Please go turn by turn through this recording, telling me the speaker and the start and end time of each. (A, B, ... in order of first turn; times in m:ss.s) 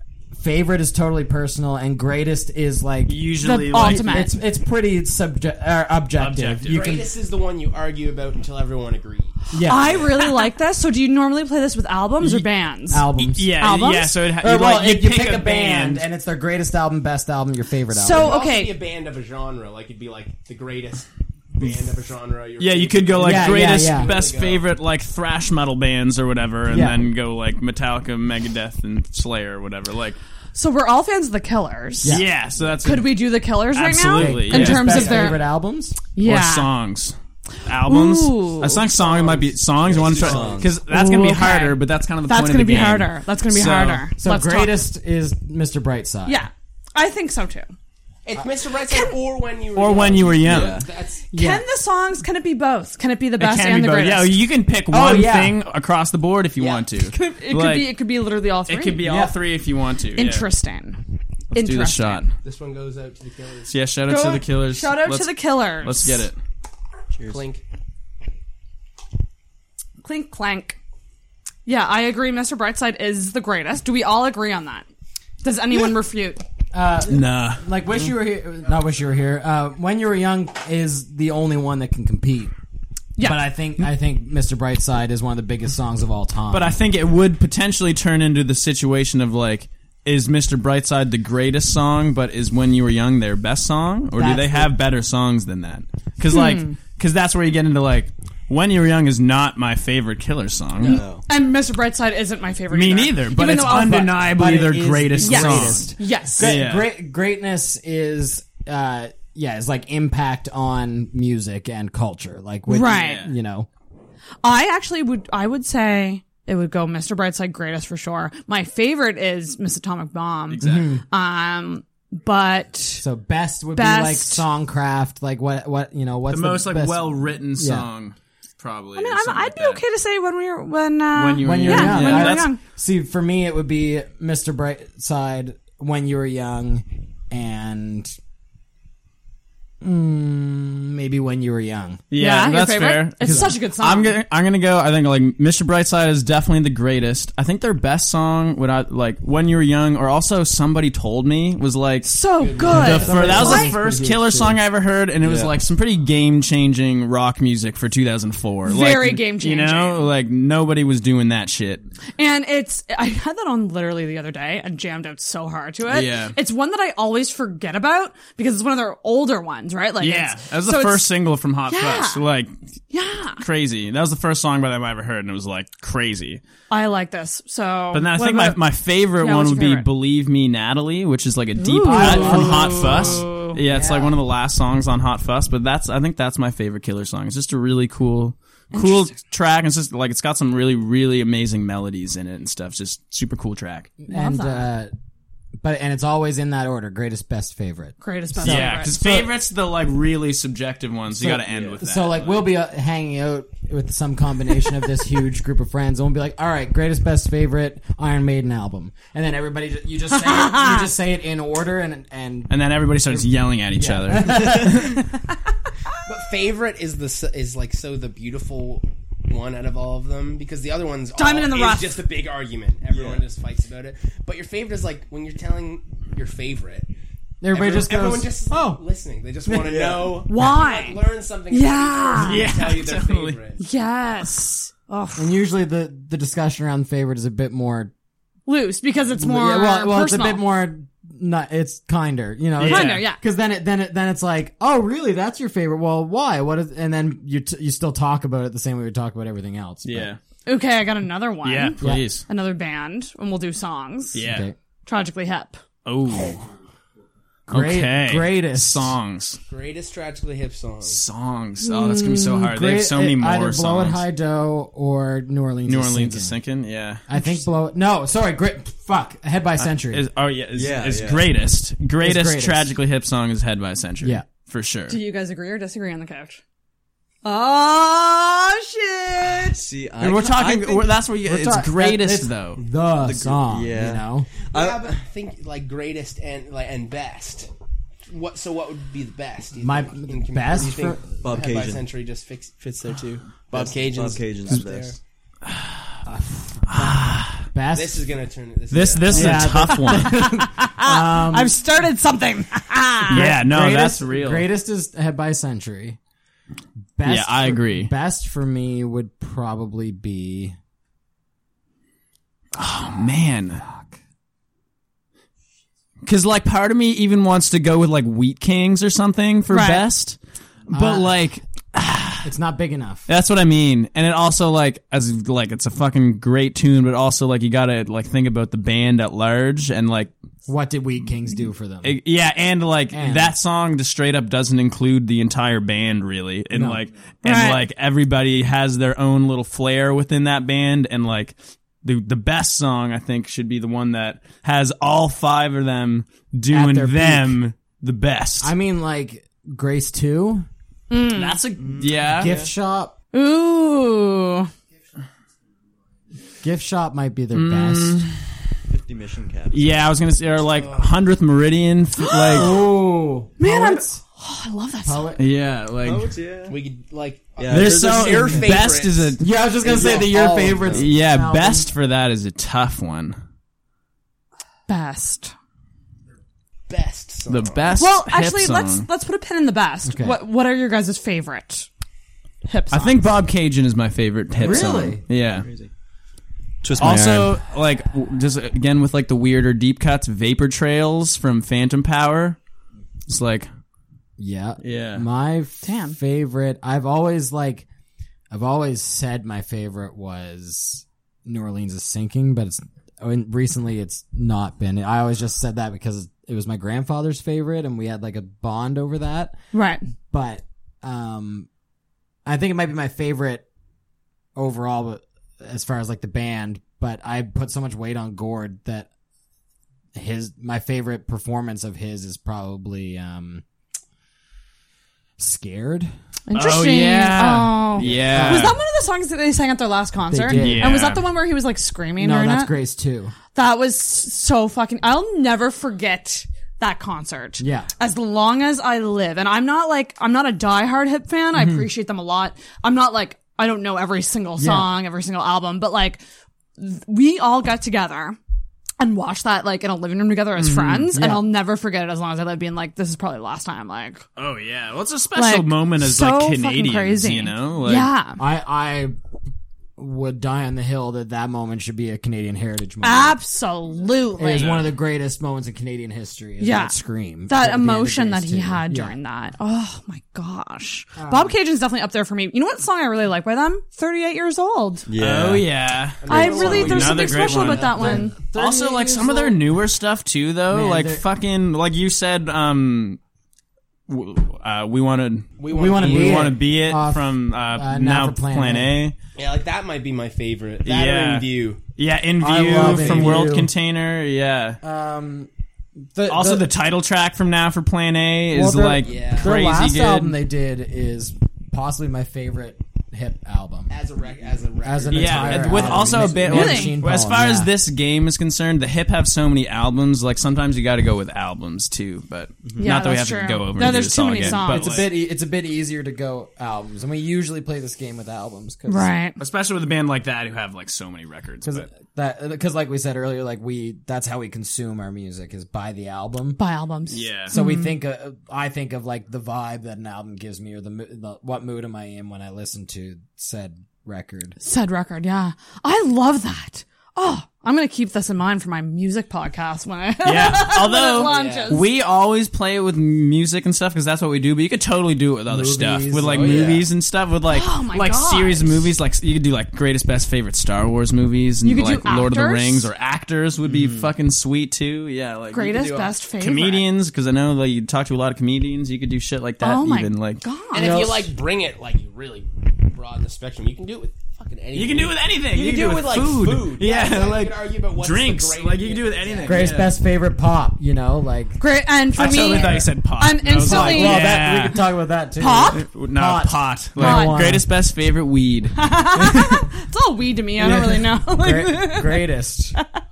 0:00.3-0:07.1 A
0:03.0-0:04.3 B
0:03.4-0:04.3 C
0:06.2-0:07.0 B
0:06.7-0:09.4 D
0:09.5-0:10.2 A
0:09.6-0:14.2 C
0:12.2-0:12.4 B
0:12.9-0:13.5 A
0:13.2-0:16.0 B
0:14.4-0:18.4 A
0:17.9-0:18.7 C
0:18.1-0:24.6 D
0:22.6-0:30.2 B
0:23.2-0:24.1 A
0:26.7-0:27.1 A
0:30.5-0:32.2 C
0:32.0-0:32.3 A
0:32.0-0:35.3 B
0:32.8-0:35.4 C
0:34.0-0:36.0 A
0:36.2-0:36.7 C
0:36.2-0:44.1 B
0:37.8-0:38.8 C
0:38.8-0:40.6 D
0:39.8-0:40.7 E
0:40.9-0:44.8 C
0:44.2-0:46.4 A
0:46.2-0:47.7 C
0:48.2-0:51.2 D
0:48.9-0:49.2 C
0:49.7-0:50.8 B
0:50.4-0:50.8 E
0:51.3-0:51.6 A
0:51.3-0:54.3 C
0:53.4-0:58.0 B
0:54.9-0:55.6 A
0:56.6-0:56.9 D
0:57.1-0:59.0 C
0:58.7-1:00.5 B
0:59.0-0:59.4 A
1:00.1-1:01.0 C
1:01.5-1:02.3 C
1:01.5-1:02.3 B
1:02.4-1:03.7 D
1:03.7-1:06.4 B
1:04.0-1:06.2 C
1:07.2-1:07.4 E
1:07.3-1:07.6 D
1:10.0-1:10.8 C
1:11.6-1:14.8 C
1:15.4-1:16.4 C
1:16.7-1:22.5 A
1:17.1-1:17.6 B
1:23.2-1:23.5 C
1:23.2-1:26.8 A
1:26.5-1:41.0 B
1:34.1-1:34.7 A
1:36.3-1:36.7 C
1:40.8-1:41.2 E
1:40.8-1:44.2 C
1:42.7-1:46.9 B
1:43.6-1:53.7 A
1:45.2-1:46.5 C
1:52.7-1:53.3 C
1:52.9-1:53.2 B
1:54.4-2:03.0 C
2:00.5-2:00.9 B
2:00.6-2:01.0 A
2:03.0-2:07.9 A
2:03.7-2:04.4 C
2:06.3-2:09.8 B
2:09.0-2:12.6 C
2:11.1-2:12.5 B
2:11.4-2:18.2 A
2:19.8-2:22.0 A
2:22.1-2:32.1 B
2:22.2-2:24.2 C
2:23.2-2:23.5 A
2:32.0-2:33.7 C
2:32.4-2:33.7 D
2:32.6-2:34.6 A
2:32.6-2:41.8 B
2:35.2-2:35.5 E
2:38.6-2:40.0 C
2:42.2-2:51.0 C
2:45.9-2:46.4 B
2:50.0-2:52.5 B
2:51.7-2:52.2 C
2:52.9-2:53.4 C
2:53.4-2:56.4 B
2:56.7-2:58.6 C
2:57.9-3:13.9 B
2:59.2-2:59.9 C
3:01.6-3:03.6 C
3:01.8-3:04.2 A
3:08.7-3:09.1 C
3:14.0-3:14.9 A
3:14.1-3:14.7 C
3:15.6-3:19.3 A
3:18.0-3:19.0 C
3:18.4-3:22.5 B
3:21.1-3:32.5 A
3:30.2-3:30.9 C
3:32.5-3:35.0 B
3:33.1-3:35.0 A
3:36.0-3:46.9 D
3:41.2-3:42.0 C
3:42.9-3:43.2 E
3:47.4-3:48.8 A
3:47.5-3:53.6 D
3:49.5-3:50.2 E
3:50.3-3:52.5 C
3:52.2-3:53.4 B
3:53.6-3:55.4 C
3:55.2-3:57.9 A
3:58.5-4:00.4 C
3:59.2-4:10.1 A
4:02.6-4:03.1 B
4:02.6-4:03.2 C
4:09.8-4:10.2 B
4:10.4-4:14.2 C
4:11.4-4:12.2 B
4:11.8-4:12.1 A
4:14.1-4:14.5 B
4:14.2-4:14.5 A
4:14.8-4:15.6 C
4:15.8-4:16.5 B
4:17.5-4:18.9 A
4:17.5-4:19.4 B
4:19.5-4:21.0 D
4:20.8-4:24.0 B
4:21.6-4:22.3 C
4:22.3-4:26.4 A
4:25.6-4:27.0 B
4:27.1-4:30.0 A
4:29.6-4:35.0 B
4:30.5-4:31.4 E
4:32.0-4:32.7 A
4:34.0-4:34.2 A
4:34.9-4:36.4 C
4:37.2-4:39.6 C
4:39.4-4:40.6 E
4:40.0-4:42.6 B
4:40.0-4:44.3 A
4:43.0-4:45.0 E
4:44.5-4:47.5 D
4:48.1-4:55.0 D
4:49.6-4:51.1 A
4:51.2-4:51.8 E
4:53.5-4:55.0 E
4:55.5-4:55.8 B
4:56.0-4:58.0 A
4:56.7-4:57.4 B
4:57.7-4:59.5 D
4:58.7-5:00.3 B
4:59.1-5:01.6 A
4:59.7-5:03.3 C
5:03.1-5:04.5 B
5:03.1-5:06.0 A
5:07.0-5:10.6 A
5:07.0-5:07.9 B
5:12.5-5:13.6 B
5:13.6-5:13.9 A
5:16.0-5:20.2 B
5:19.5-5:19.9 C
5:20.7-5:22.3 B
5:20.7-5:21.2 A
5:22.2-5:23.1 A
5:23.1-5:30.1 B
5:30.4-5:32.0 A
5:31.8-5:48.5 B
5:32.9-5:33.4 A
5:36.5-5:36.8 A
5:37.2-5:37.6 C
5:46.5-5:47.4 A
5:48.4-5:50.5 A
5:50.9-5:51.4 C
5:51.1-5:52.3 B
5:51.6-5:52.5 E
5:52.1-5:52.9 A
5:53.1-5:54.5 C
5:56.4-5:58.0 A
5:57.3-5:58.2 B
5:58.7-5:59.9 E
5:59.5-6:02.6 B
6:00.5-6:00.8 D
6:02.0-6:02.4 C
6:02.3-6:04.0 A
6:03.4-6:05.1 C
6:04.8-6:05.2 A
6:05.2-6:06.1 B
6:05.8-6:06.6 E
6:06.5-6:10.9 D
6:07.4-6:08.4 E
6:07.5-6:09.2 B
6:08.1-6:11.7 A
6:10.7-6:13.2 B
6:14.7-6:15.3 C
6:16.7-6:17.7 D
6:17.3-6:18.8 B
6:17.8-6:21.7 C
6:19.8-6:20.2 A
6:22.4-6:23.0 C
6:22.7-6:25.4 B
6:24.4-6:25.7 E
6:24.4-6:25.0 A
6:26.6-6:27.4 E
6:26.8-6:32.4 B
6:33.1-6:33.5 B
6:34.2-6:37.7 A
6:34.6-6:35.0 B
6:35.6-6:36.0 C
6:38.3-6:49.3 A
6:49.5-6:49.8 C
6:50.1-6:51.5 A
6:52.2-6:53.4 A
6:54.4-6:58.9 A
6:59.9-7:03.4 A
7:05.2-7:05.9 A
7:06.3-7:12.5 C
7:06.3-7:08.6 B
7:07.8-7:08.5 A
7:10.1-7:10.8 A
7:10.3-7:11.0 B
7:12.0-7:13.1 A
7:13.3-7:26.0 C
7:17.4-7:17.7 A
7:21.3-7:21.6 A
7:24.4-7:24.7 A
7:26.6-7:28.2 C
7:28.8-7:34.0 C
7:30.4-7:30.9 B
7:30.7-7:31.3 A
7:34.2-7:37.9 B
7:35.1-7:38.2 C
7:38.2-7:39.0 A
7:39.8-7:43.2 A
7:42.8-7:44.6 C
7:44.2-7:49.0 A
7:46.4-7:46.8 C
7:47.3-7:54.8 C
7:51.0-7:51.4 A
7:54.9-7:55.6 E
7:55.0-8:03.0 B
7:56.0-7:57.8 D
7:56.0-7:58.1 C
7:56.1-7:59.4 A
8:00.5-8:01.0 A
8:03.9-8:08.9 B
8:05.4-8:06.4 D
8:05.5-8:08.7 A
8:09.2-8:11.6 D
8:10.6-8:14.6 B
8:12.2-8:13.5 A
8:12.6-8:13.3 D
8:14.6-8:15.3 A
8:15.9-8:16.5 A
8:16.1-8:20.2 B
8:18.3-8:23.7 A
8:18.8-8:19.6 D
8:23.7-8:26.2 D
8:24.6-8:27.5 A
8:24.9-8:34.9 B
8:26.2-8:26.8 C
8:32.6-8:34.9 C
8:34.2-8:38.9 A
8:38.7-8:39.2 C
8:39.2-8:41.7 B
8:41.4-8:46.4 A
8:46.4-8:47.7 C
8:46.9-8:47.3 B
8:47.3-8:54.4 A
8:54.4-9:01.6 C
9:00.0-9:20.2 B
9:01.0-9:01.6 D
9:05.3-9:06.7 A
9:06.0-9:06.5 D
9:07.3-9:08.5 C
9:11.4-9:12.7 C
9:13.5-9:13.8 A
9:15.3-9:16.6 C
9:19.4-9:20.8 C
9:20.5-9:29.6 D
9:20.5-9:21.2 A
9:24.5-9:29.8 B
9:29.2-9:32.7 A
9:31.4-9:34.1 C
9:32.0-9:34.6 B
9:33.4-9:37.5 A
9:35.2-9:35.6 C
9:35.5-9:39.2 B
9:36.8-9:37.2 C
9:38.5-9:42.6 C
9:39.0-9:39.4 A
9:40.4-9:42.6 A